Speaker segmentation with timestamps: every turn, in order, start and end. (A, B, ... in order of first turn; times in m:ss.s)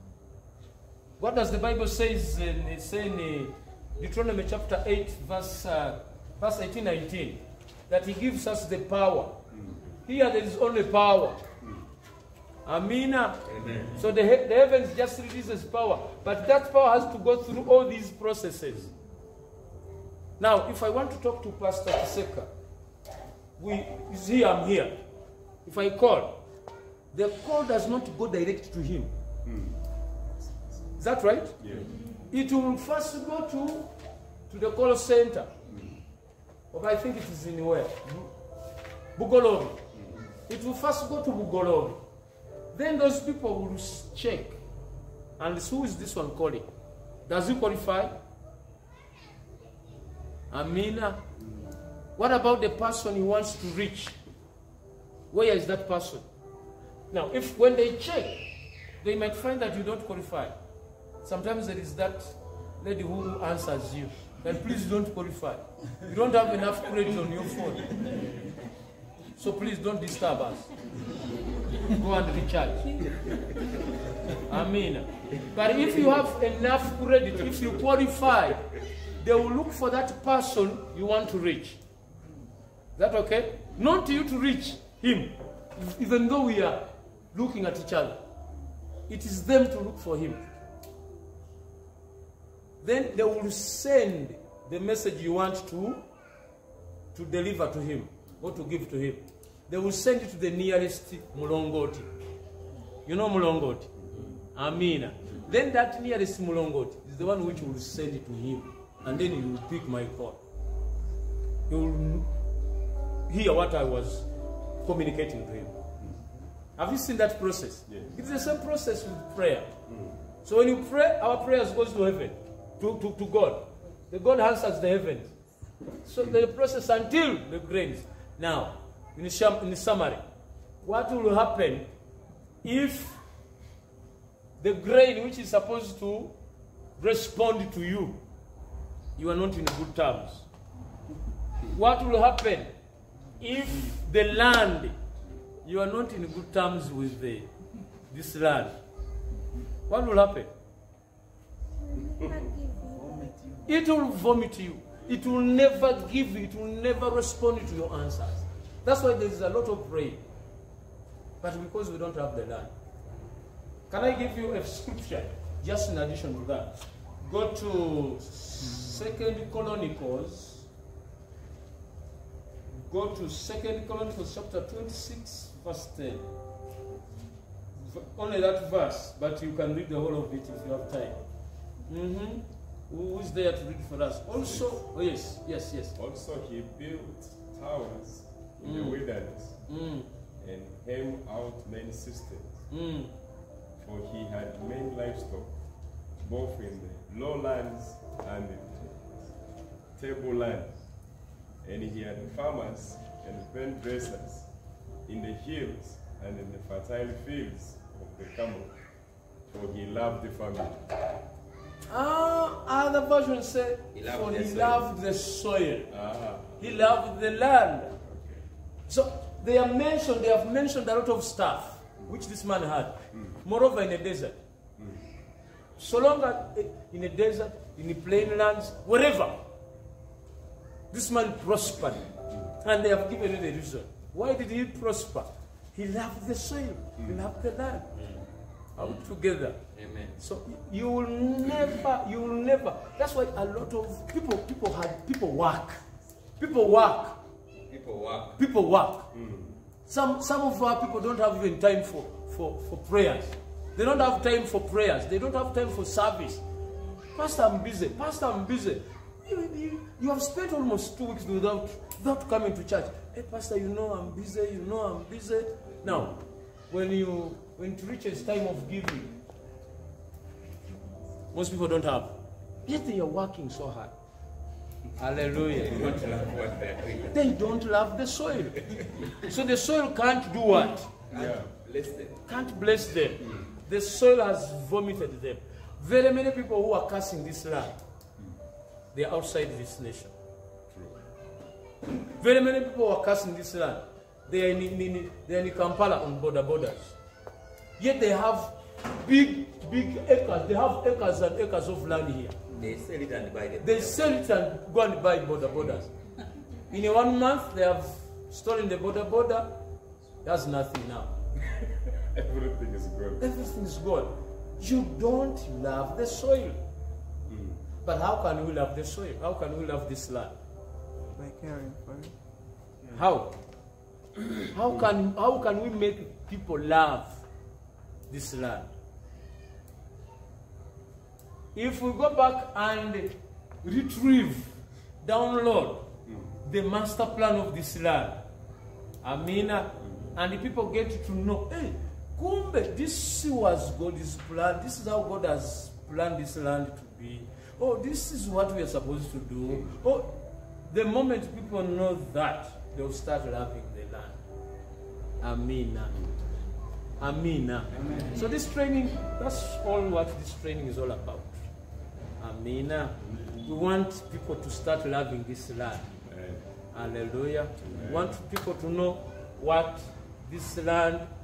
0:01.2-0:09.4 A
0:09.5-0:09.9 B
0:10.0-0:11.4 A
0:12.6-0:13.4 A
0:13.4-0:14.0 C
0:14.0-0:18.9 A
0:20.4-0:22.5 A
0:23.6-0:25.0 A
0:25.6-0:26.4 A
0:27.1-0:29.1 A
0:29.4-0:29.8 B
0:31.0-0:31.6 A
0:31.6-0:32.0 B
0:32.3-0:33.9 A
0:34.5-0:35.5 A
0:35.7-0:36.0 B
0:36.7-0:38.4 A
0:39.2-0:39.8 A
0:40.5-0:42.0 A
0:42.7-0:44.6 A
0:45.4-0:46.7 A
0:47.3-0:48.1 A
0:50.5-0:51.2 A
0:52.2-0:54.2 A
0:55.3-0:56.2 A
0:57.1-1:00.6 A
1:01.2-1:08.0 A
1:09.4-1:10.7 A
1:11.8-1:13.1 A
1:14.4-1:21.8 A
1:23.0-1:28.2 A
1:29.1-1:30.5 A
1:32.8-1:36.0 A
1:37.1-1:42.1 A
1:43.1-1:43.9 A
1:44.5-1:50.4 A
1:51.7-1:52.3 A
1:53.3-1:54.3 A
1:54.8-1:55.8 A
1:56.8-1:59.7 A
1:57.9-1:58.1 B
1:59.9-2:00.2 B
2:00.4-2:05.3 A
2:06.0-2:10.2 A
2:10.8-2:11.9 A
2:12.6-2:13.2 A
2:14.6-2:16.4 A
2:17.0-2:18.2 A
2:19.2-2:20.5 A
2:21.7-2:22.7 A
2:23.4-2:25.0 A
2:25.6-2:27.5 A
2:28.1-2:28.8 A
2:29.9-2:30.5 A
2:32.0-2:32.5 B
2:32.7-2:33.7 D
2:33.7-2:40.2 A
2:41.4-2:42.7 A
2:43.9-2:50.7 A
2:52.7-2:56.3 A
2:57.8-3:01.2 A
3:01.9-3:06.0 A
3:04.4-3:04.8 B
3:06.0-3:09.6 B
3:08.6-3:10.1 A
3:10.4-3:12.7 B
3:12.7-3:13.1 A
3:13.8-3:15.6 B
3:16.2-3:19.3 B
3:20.0-3:20.8 B
3:21.6-3:24.5 B
3:25.1-3:28.8 B
3:29.5-3:30.9 B
3:31.9-3:35.9 A
3:34.0-3:34.8 C
3:35.9-3:37.0 B
3:36.6-3:38.0 A
3:38.0-3:38.4 B
3:38.9-3:44.4 A
3:44.8-3:45.0 B
3:45.8-3:49.4 A
3:50.9-3:57.9 A
3:57.0-3:57.2 B
3:58.0-3:58.3 C
3:58.8-3:59.6 A
3:59.7-4:00.1 C
4:00.2-4:05.8 A
4:06.4-4:07.2 A
4:07.7-4:08.4 C
4:08.4-4:09.1 A
4:09.1-4:09.6 B
4:09.9-4:16.4 A
4:17.1-4:26.1 A
4:25.8-4:26.1 B
4:26.7-4:29.1 A
4:31.3-4:34.0 A
4:35.0-4:36.2 A
4:35.6-4:37.2 C
4:37.1-4:40.9 A
4:41.1-4:42.2 C
4:41.1-4:41.5 B
4:42.3-4:47.8 A
4:43.2-4:43.5 B
4:48.9-4:50.1 A
4:50.7-4:51.0 B
4:52.2-4:57.0 A
4:57.8-5:02.4 A
5:02.5-5:04.1 C
5:03.6-5:05.9 A
5:06.7-5:09.6 A
5:10.2-5:11.1 A
5:12.0-5:13.3 B
5:13.2-5:16.6 A
5:17.2-5:17.6 B
5:17.8-5:20.4 A
5:21.1-5:22.2 D
5:22.9-5:23.4 A
5:24.5-5:27.2 A
5:28.1-5:28.7 A
5:31.5-5:35.9 A
5:36.1-5:36.3 B
5:36.4-5:38.2 A
5:39.0-5:54.2 A
5:39.8-5:40.1 B
5:49.5-5:49.8 B
5:55.2-5:56.0 A
5:57.0-6:01.4 A
6:02.2-6:05.9 A
6:06.1-6:06.5 B
6:06.7-6:11.1 A
6:07.6-6:08.2 B